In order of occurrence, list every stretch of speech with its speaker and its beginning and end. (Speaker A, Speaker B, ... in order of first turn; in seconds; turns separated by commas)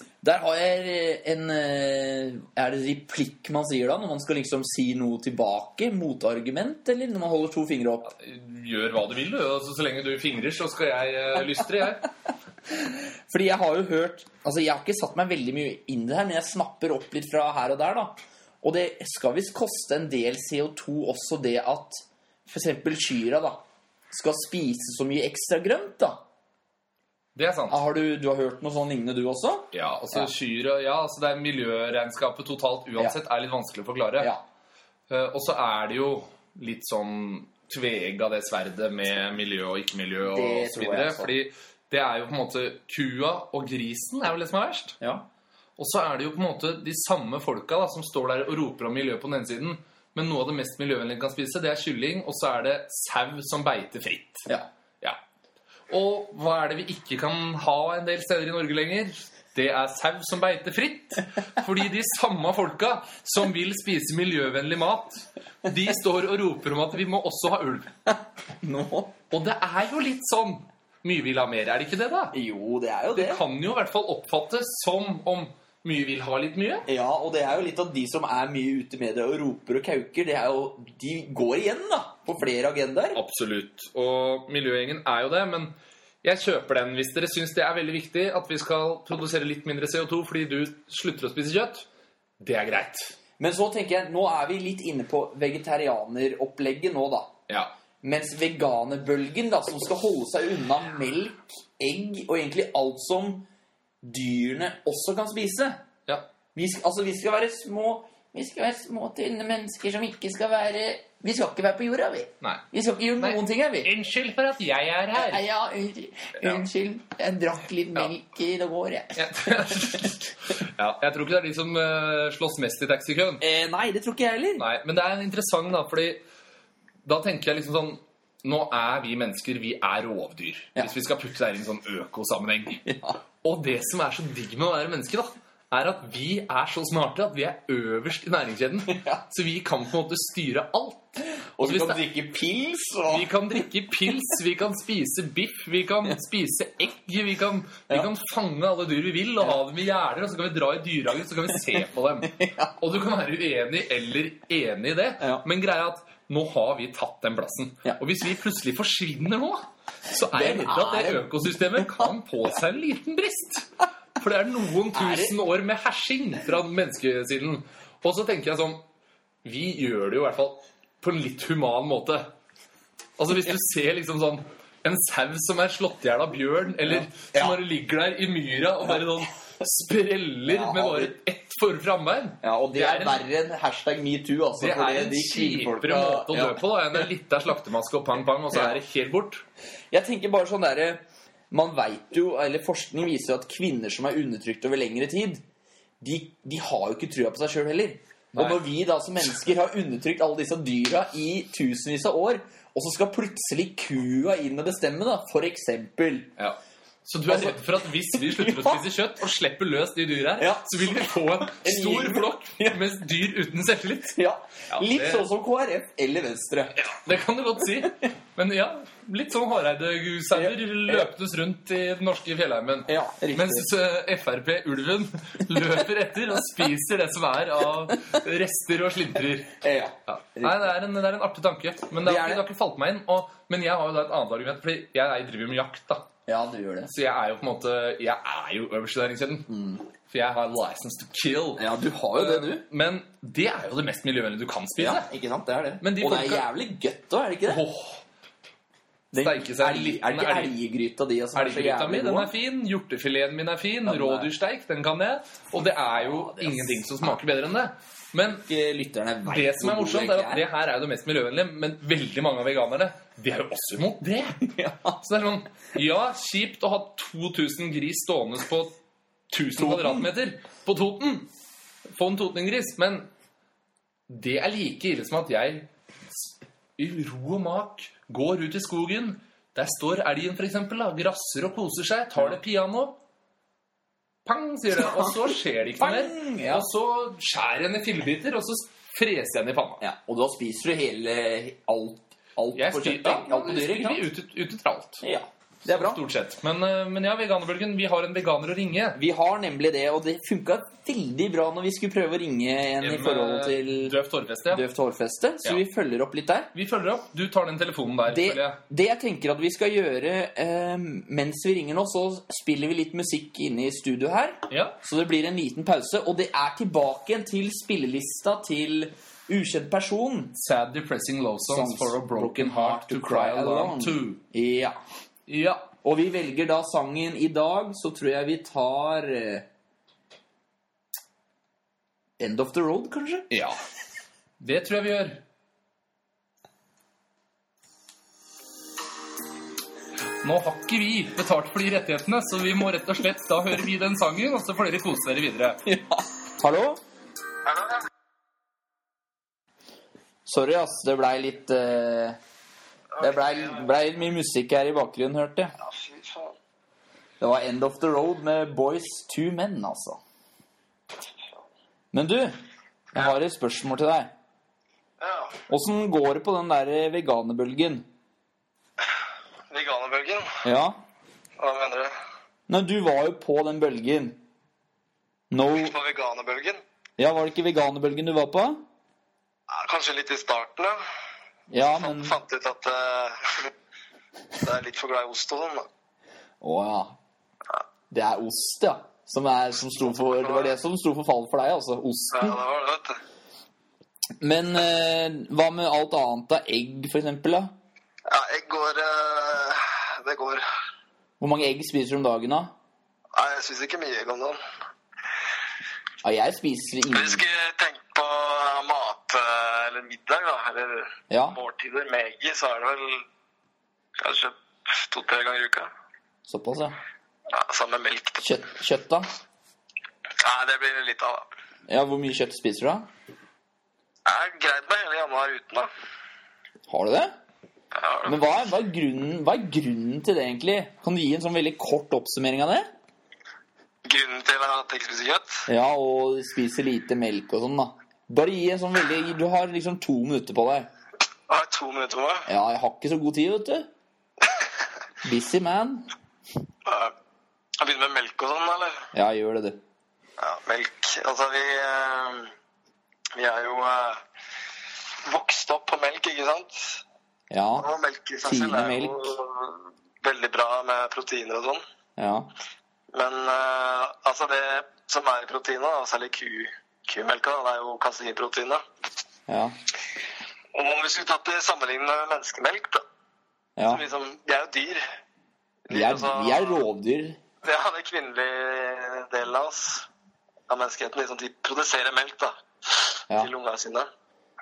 Speaker A: 0.2-8.1, Speaker B: 8.1-12.1, Speaker A: 13.3-26.2, Speaker B: 27.3-27.8, Speaker A: 27.7-30.3, Speaker B: 29.7-34.3, Speaker B: 35.1-45.0, Speaker A: 40.3-41.3, Speaker A: 45.0-45.2, Speaker B: 45.8-54.5, Speaker B: 55.9-67.9, Speaker A: 68.6-69.1, Speaker B: 69.3-72.3, Speaker A: 72.3-73.4, Speaker B: 73.1-76.9, Speaker A: 76.8-83.2, Speaker B: 83.1-91.9, Speaker B: 92.4-93.1, Speaker A: 93.4-97.3, Speaker B: 97.5-97.7, Speaker A: 98.0-103.5, Speaker A: 104.0-105.8, Speaker A: 106.5-113.9, Speaker B: 113.2-115.4, Speaker A: 115.1-119.7, Speaker B: 119.1-123.4, Speaker A: 123.4-124.7, Speaker B: 124.6-126.2, Speaker B: 127.0-132.8, Speaker A: 132.8-133.2, Speaker B: 133.4-142.0, Speaker A: 138.9-139.2, Speaker A: 141.6-143.4, Speaker B: 143.1-168.8, Speaker A: 152.3-152.7, Speaker A: 155.2-155.4, Speaker A: 160.3-162.1, Speaker A: 164.9-165.3, Speaker B: 169.4-172.3, Speaker B: 173.2-183.2, Speaker A: 176.9-177.6, Speaker A: 180.5-181.1, Speaker A: 182.4-186.6, Speaker B: 184.6-189.4, Speaker A: 188.5-188.8, Speaker A: 189.9-195.4, Speaker A: 196.0-206.3, Speaker B: 198.3-198.6, Speaker B: 206.4-214.2, Speaker A: 207.3-207.6, Speaker A: 208.1-208.8, Speaker A: 210.4-212.8, Speaker A: 214.1-216.8, Speaker B: 214.7-215.3, Speaker B: 216.8-229.6, Speaker A: 220.3-221.1, Speaker A: 222.9-223.7, Speaker A: 229.6-230.7, Speaker B: 230.1-236.1, Speaker A: 232.0-232.4, Speaker A: 236.3-236.9, Speaker B: 236.9-239.5, Speaker A: 239.5-239.8, Speaker B: 240.1-245.1, Speaker A: 241.6-242.7, Speaker A: 244.8-247.6, Speaker B: 245.8-246.5, Speaker B: 247.4-248.0, Speaker A: 249.1-252.3, Speaker B: 249.1-250.5, Speaker B: 251.3-258.4, Speaker A: 253.8-254.3, Speaker A: 255.9-257.1, Speaker A: 258.5-260.4, Speaker B: 259.2-264.4, Speaker A: 264.4-265.0, Speaker B: 265.0-268.7, Speaker B: 269.3-271.3, Speaker A: 269.6-270.1, Speaker B: 271.9-273.1, Speaker B: 274.1-283.0, Speaker B: 284.2-289.8, Speaker A: 284.8-285.1, Speaker A: 285.7-286.7, Speaker A: 289.8-294.1, Speaker B: 292.6-295.0, Speaker A: 295.0-296.0, Speaker B: 295.6-299.0, Speaker A: 298.9-303.9, Speaker B: 302.8-304.6, Speaker A: 304.5-306.5, Speaker B: 306.5-308.6, Speaker A: 308.1-320.3, Speaker B: 314.5-314.8, Speaker B: 320.4-324.2, Speaker A: 321.5-324.8, Speaker B: 325.3-325.7, Speaker A: 325.8-329.4, Speaker A: 332.2-333.3, Speaker B: 333.3-333.6, Speaker B: 334.4-335.2, Speaker B: 340.2-345.6, Speaker A: 345.6-346.8, Speaker C: 347.5-347.8, Speaker A: 350.2-352.2, Speaker C: 352.9-353.6, Speaker A: 353.0-355.5, Speaker C: 355.6-356.4, Speaker A: 357.2-360.0, Speaker A: 361.9-362.4, Speaker A: 362.9-364.1, Speaker C: 365.0-365.4, Speaker A: 365.5-367.9, Speaker C: 369.5-370.4, Speaker A: 370.4-370.8, Speaker C: 371.4-371.9, Speaker A: 372.5-374.2, Speaker A: 375.3-375.7, Speaker C: 375.5-376.6, Speaker A: 377.0-378.6, Speaker C: 379.5-380.8, Speaker A: 381.5-382.1, Speaker C: 381.6-383.5, Speaker C: 384.4-385.7, Speaker A: 386.4-386.9, Speaker A: 387.9-392.4, Speaker C: 390.0-390.5, Speaker C: 392.1-393.0, Speaker A: 394.2-397.5, Speaker C: 398.1-400.4, Speaker A: 401.2-402.5, Speaker C: 403.1-404.4, Speaker A: 406.0-407.2, Speaker C: 406.9-413.0, Speaker A: 411.1-411.4, Speaker C: 414.0-415.7, Speaker A: 416.3-416.8, Speaker C: 417.3-418.2, Speaker A: 418.2-419.1, Speaker C: 420.2-421.3, Speaker A: 421.7-422.9, Speaker C: 424.1-425.7, Speaker A: 426.7-427.1, Speaker C: 427.7-428.3, Speaker A: 428.1-432.7, Speaker C: 433.8-435.4, Speaker A: 435.5-440.7, Speaker C: 441.3-442.3, Speaker A: 442.2-443.7, Speaker A: 445.0-445.9, Speaker C: 446.6-446.9, Speaker C: 447.6-448.9, Speaker A: 448.9-449.6, Speaker C: 450.2-452.3, Speaker C: 453.1-454.0, Speaker C: 455.0-456.8, Speaker A: 457.3-457.7, Speaker C: 457.6-461.6, Speaker A: 458.2-459.1, Speaker A: 462.0-462.3, Speaker C: 462.9-468.6, Speaker A: 469.3-469.6, Speaker C: 470.5-472.8, Speaker A: 473.6-473.8, Speaker C: 473.6-474.8, Speaker C: 475.7-476.6, Speaker A: 475.7-477.2, Speaker C: 477.4-479.9, Speaker C: 480.5-483.9